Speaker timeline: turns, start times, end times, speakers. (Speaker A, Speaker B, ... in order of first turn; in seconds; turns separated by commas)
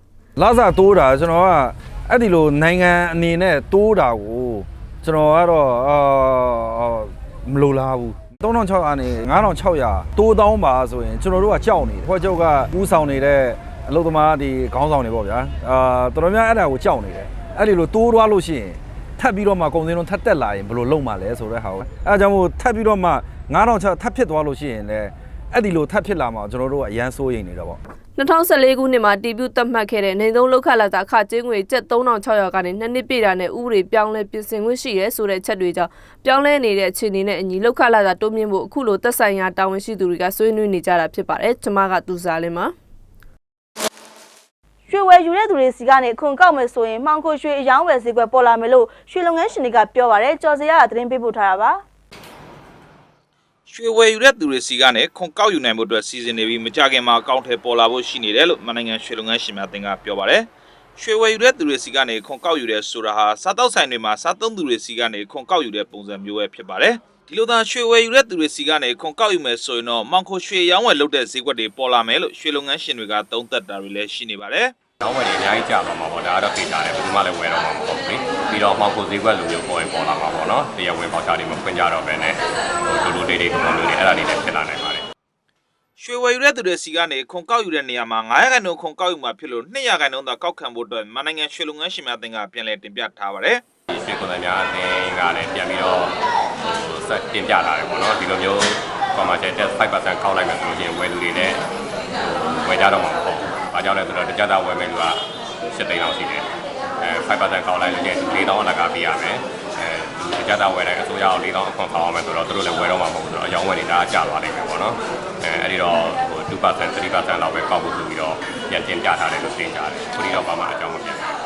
Speaker A: 0.4-27.8, Speaker B: 28.2-42.7, Speaker C: 44.9-51.8, Speaker D: 53.7-74.8, Speaker E: 75.0-85.0, Speaker D: 86.0-93.7, Speaker E: 93.9-96.1, Speaker E: 96.6-101.6, Speaker E: 102.2-105.2, Speaker E: 105.7-106.5, Speaker E: 107.0-121.3